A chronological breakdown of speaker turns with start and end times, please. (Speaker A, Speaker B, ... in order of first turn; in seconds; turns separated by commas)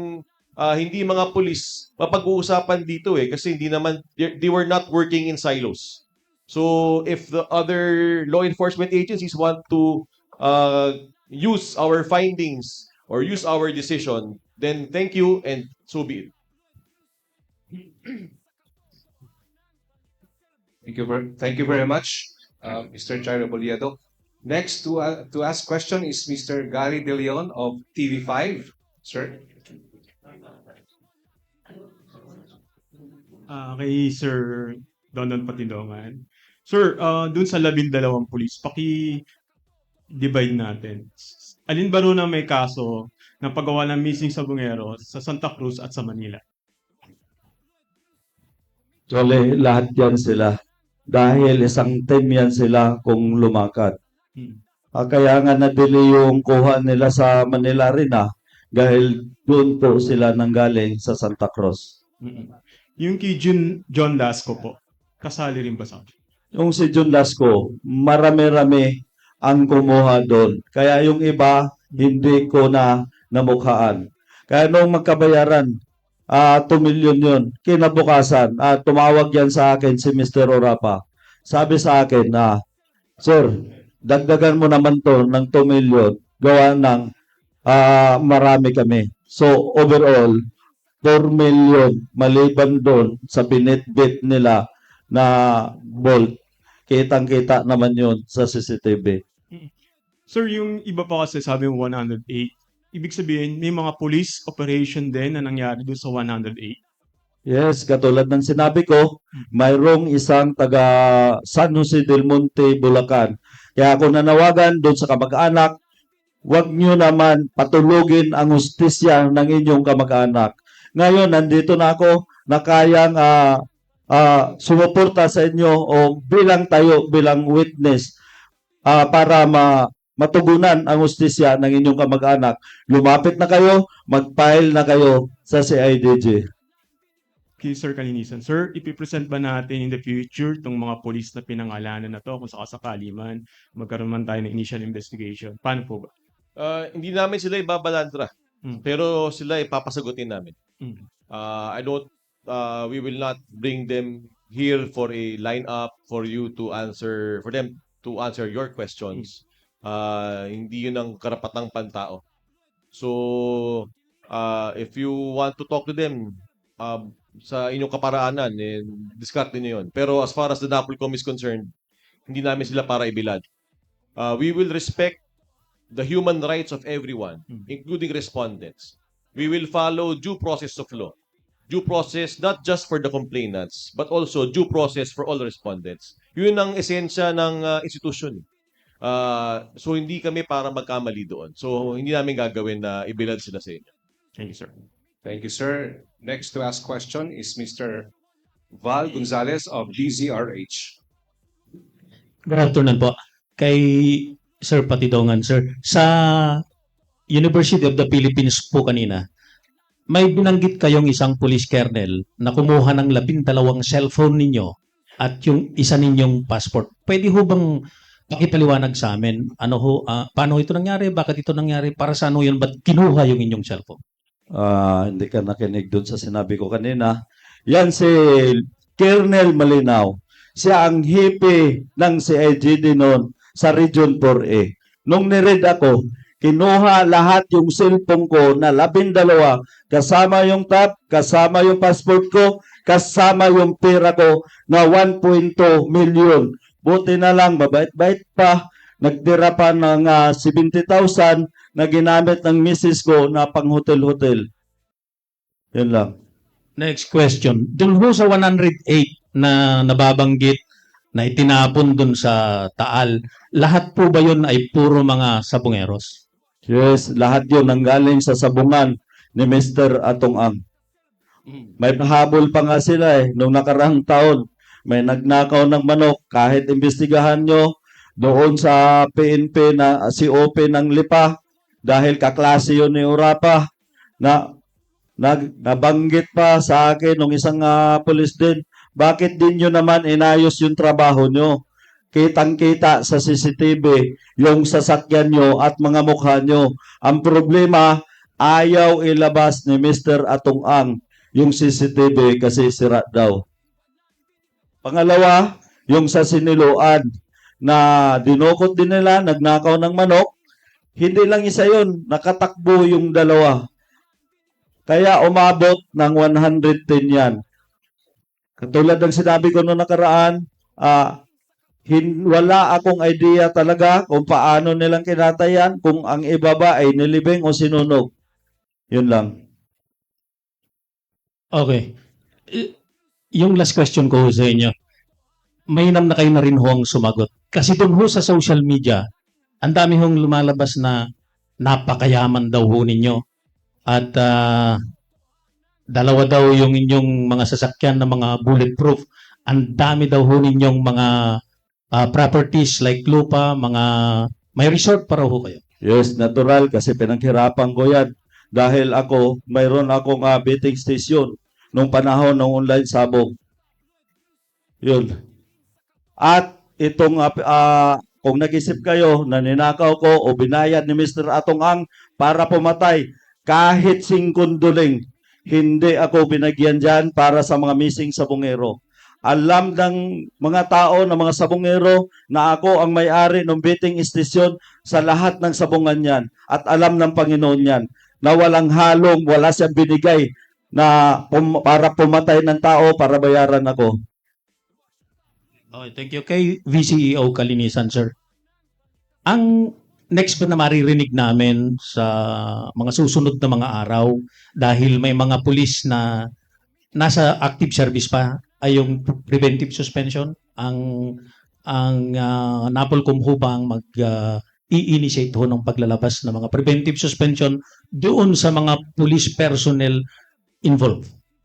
Speaker A: 0.6-16.3, Speaker B: 20.8-29.4, Speaker C: 33.5-39.2, Speaker C: 40.1-46.4, Speaker D: 49.1-50.5, Speaker D: 51.1-53.9, Speaker D: 55.0-61.9, Speaker C: 62.2-66.1, Speaker D: 66.6-68.9, Speaker D: 69.5-75.7, Speaker D: 76.3-82.5, Speaker D: 83.2-83.5, Speaker D: 84.0-87.1, Speaker D: 87.7-90.4, Speaker D: 91.0-94.6, Speaker D: 95.1-96.3, Speaker D: 96.9-99.2, Speaker C: 100.3-106.8, Speaker D: 107.5-115.7, Speaker D: 116.5-123.6, Speaker D: 124.1-128.1, Speaker D: 128.9-136.4, Speaker C: 137.6-146.1, Speaker A: 146.6-148.3, Speaker A: 148.8-150.5, Speaker A: 151.3-162.2, Speaker A: 162.9-166.2, Speaker A: 166.8-171.7, Speaker A: 172.3-173.4, Speaker A: 174.2-175.2, Speaker A: 175.9-181.1, Speaker A: 181.7-188.4, Speaker A: 189.0-193.9, Speaker C: 194.3-194.7, Speaker B: 195.2-198.1, Speaker B: 198.8-200.9, Speaker E: 202.5-206.6, Speaker E: 207.3-209.2, Speaker E: 210.1-217.7, Speaker E: 218.3-224.0, Speaker D: 224.5-227.1, Speaker D: 227.7-254.4, Speaker D: 255.7-256.1, Speaker E: 256.8-260.6, Speaker E: 261.1-266.1, Speaker D: 266.7-270.6, Speaker D: 271.8-277.6, Speaker D: 278.2-281.3, Speaker D: 281.9-283.6, Speaker D: 285.2-291.6, Speaker D: 292.1-303.4, Speaker D: 304.8-307.0, Speaker D: 307.6-310.3, Speaker D: 311.0-313.6, Speaker D: 314.9-317.3, Speaker D: 318.6-321.1, Speaker D: 321.9-328.1, Speaker D: 328.9-329.3, Speaker E: 331.5-331.9, Speaker E: 333.3-334.7, Speaker E: 335.7-339.0, Speaker E: 339.6-341.0, Speaker E: 341.6-343.2, Speaker E: 343.9-344.8, Speaker E: 345.9-351.4, Speaker E: 351.9-355.6, Speaker D: 355.8-363.3, Speaker D: 364.8-365.1, Speaker D: 366.2-375.0, Speaker D: 375.5-378.7, Speaker D: 379.3-393.9, Speaker E: 395.7-398.1, Speaker E: 399.3-406.1, Speaker E: 406.9-411.1, Speaker E: 411.7-420.0, Speaker E: 420.6-421.1